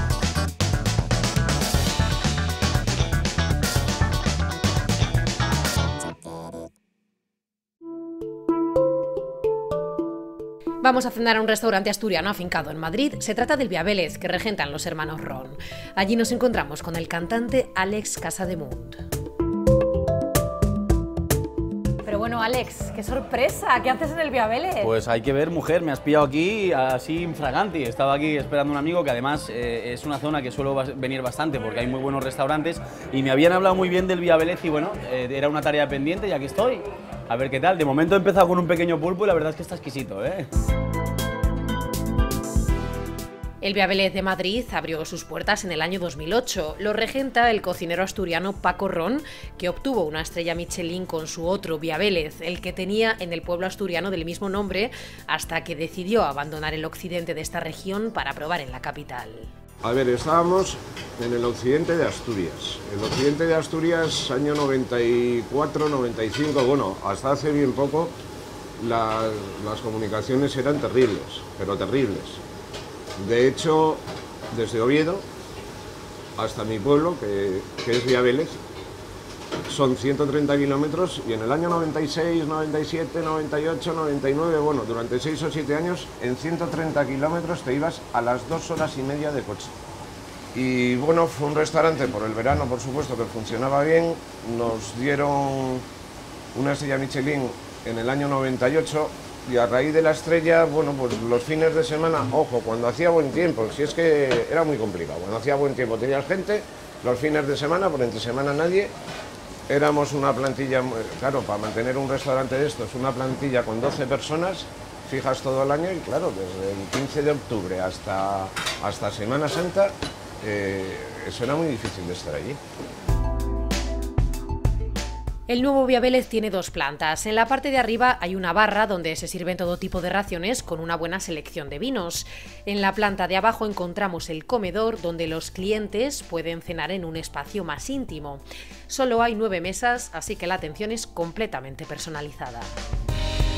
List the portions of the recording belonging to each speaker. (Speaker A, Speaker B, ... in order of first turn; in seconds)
Speaker A: 10.8-19.0, 43.6-59.5, 125.5-142.7
Speaker B: 22.0-24.9
Speaker C: 24.8-40.5
Speaker D: 59.8-68.1, 68.8-72.4, 73.2-75.2, 76.4-78.6, 79.7-89.7, 90.5-95.8, 96.5-108.9, 109.7-122.6